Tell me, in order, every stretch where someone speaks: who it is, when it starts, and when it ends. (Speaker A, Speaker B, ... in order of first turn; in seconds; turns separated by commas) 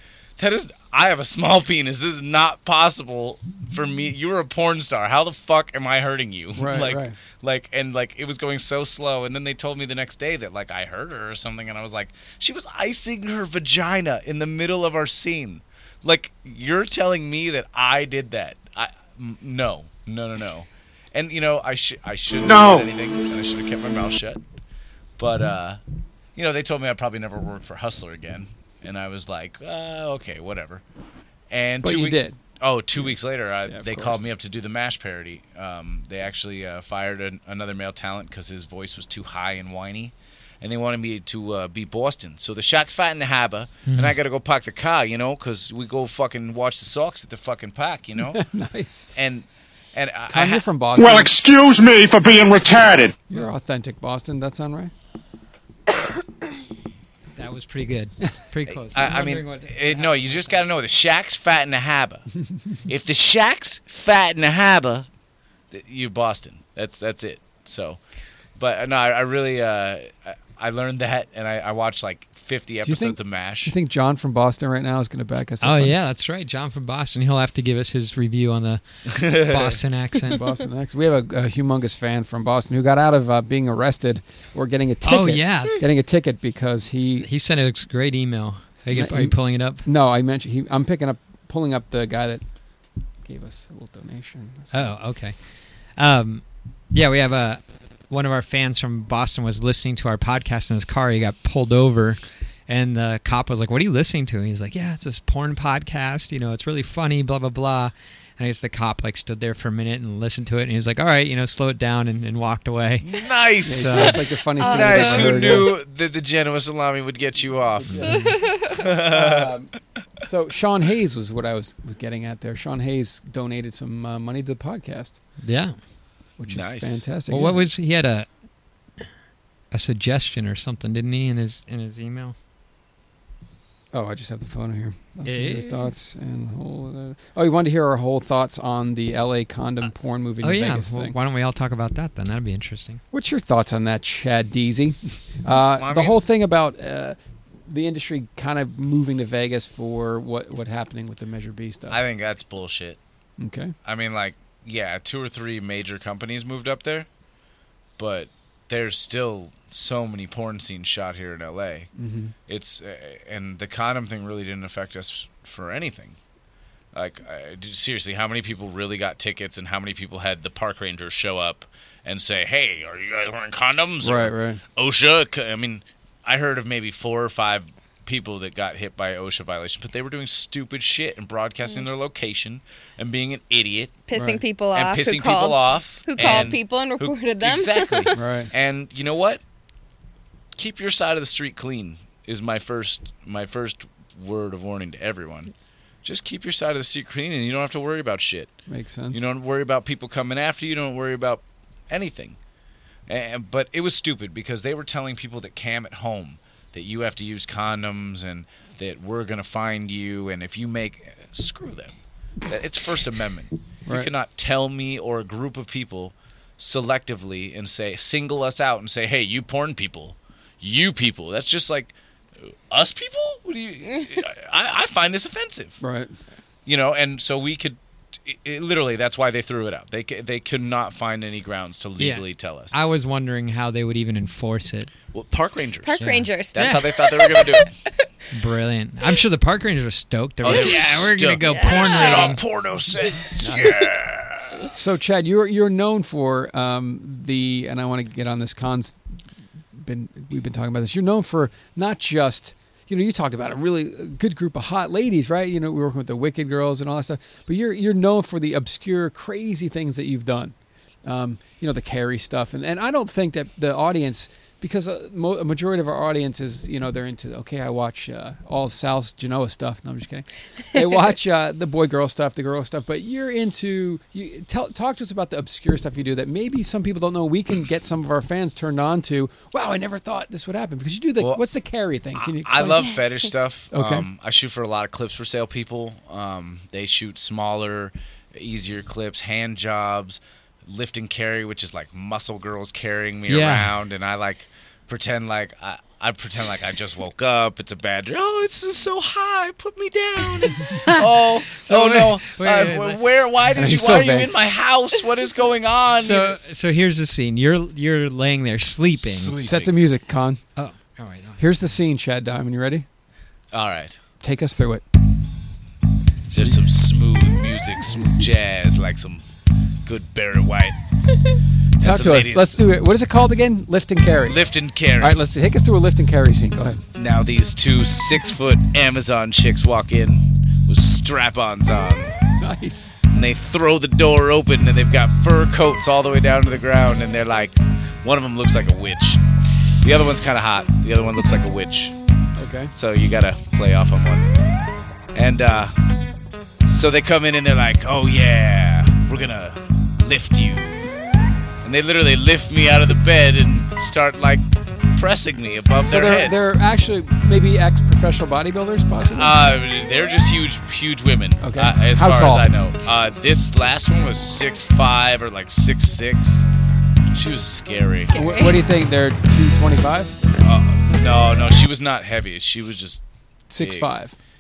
Speaker A: 0.4-24.4, Speaker B: 6.6-7.2, Speaker A: 25.2-25.8, Speaker A: 26.4-30.8, Speaker A: 31.5-48.4, Speaker B: 31.8-32.4, Speaker B: 33.7-34.2, Speaker C: 43.9-44.2, Speaker B: 48.2-49.1, Speaker A: 49.2-50.7, Speaker B: 50.3-51.3, Speaker D: 51.0-53.2, Speaker B: 53.3-54.9, Speaker C: 57.4-60.6, Speaker A: 58.8-62.3, Speaker A: 62.9-65.1, Speaker A: 65.7-68.0, Speaker A: 68.6-73.7, Speaker B: 72.8-76.0, Speaker C: 75.6-80.4, Speaker A: 79.1-79.8, Speaker B: 80.3-87.3, Speaker C: 85.0-85.8, Speaker C: 87.2-89.9, Speaker B: 88.8-92.4, Speaker B: 93.2-94.9, Speaker C: 94.7-114.2, Speaker A: 113.0-119.5, Speaker B: 113.7-115.7, Speaker E: 114.6-115.6, Speaker B: 117.9-118.4, Speaker E: 118.1-118.7, Speaker B: 119.0-119.7, Speaker B: 120.2-125.2, Speaker C: 125.4-125.8, Speaker B: 126.4-127.6, Speaker A: 126.5-127.0, Speaker C: 127.3-128.3, Speaker C: 129.7-132.4, Speaker B: 133.9-141.2, Speaker C: 135.2-135.9, Speaker C: 140.4-143.0, Speaker B: 143.1-147.2, Speaker A: 145.5-146.2, Speaker B: 147.7-152.0, Speaker A: 151.9-153.0, Speaker B: 153.4-153.7, Speaker A: 153.8-157.1, Speaker A: 158.0-161.9, Speaker B: 162.0-162.3, Speaker A: 162.5-166.2, Speaker A: 166.9-184.0, Speaker B: 174.0-174.6, Speaker E: 184.1-188.1, Speaker B: 184.1-184.4, Speaker A: 184.7-189.4, Speaker B: 186.2-186.5, Speaker B: 188.1-188.5, Speaker A: 190.6-195.5, Speaker A: 196.0-198.6, Speaker B: 198.7-199.2, Speaker A: 199.1-202.4, Speaker A: 203.1-212.0, Speaker A: 212.5-225.8, Speaker B: 225.8-226.1, Speaker A: 226.7-232.7, Speaker C: 232.0-234.9, Speaker A: 235.1-237.7, Speaker E: 235.8-237.7, Speaker C: 236.0-236.9, Speaker C: 238.3-242.4, Speaker A: 240.4-244.7, Speaker E: 241.4-242.3, Speaker B: 243.4-243.8, Speaker B: 244.7-249.0, Speaker B: 249.8-283.0, Speaker A: 282.1-306.4, Speaker B: 283.7-284.1, Speaker C: 293.3-293.8, Speaker C: 300.7-303.0, Speaker B: 303.6-304.3, Speaker C: 306.0-309.4, Speaker A: 309.0-309.8, Speaker B: 309.4-310.4, Speaker C: 310.6-311.4, Speaker B: 311.4-312.9, Speaker A: 313.5-314.0, Speaker B: 314.2-314.8, Speaker B: 316.3-316.6, Speaker A: 316.3-319.2, Speaker A: 319.9-320.8, Speaker B: 321.8-324.4, Speaker A: 321.8-322.6, Speaker A: 324.3-325.2, Speaker B: 325.0-326.8, Speaker A: 327.0-332.1, Speaker B: 332.4-333.0, Speaker A: 333.1-339.2, Speaker A: 339.8-341.9, Speaker B: 342.4-342.7, Speaker A: 342.7-344.3, Speaker A: 345.1-345.8, Speaker A: 346.6-350.9, Speaker A: 351.6-354.4, Speaker A: 354.9-356.4, Speaker B: 355.8-359.3, Speaker A: 359.1-366.5, Speaker B: 361.4-362.5, Speaker A: 367.1-368.1, Speaker E: 368.1-368.6, Speaker B: 368.1-370.2, Speaker A: 370.4-373.0, Speaker B: 373.5-374.1, Speaker A: 373.6-373.9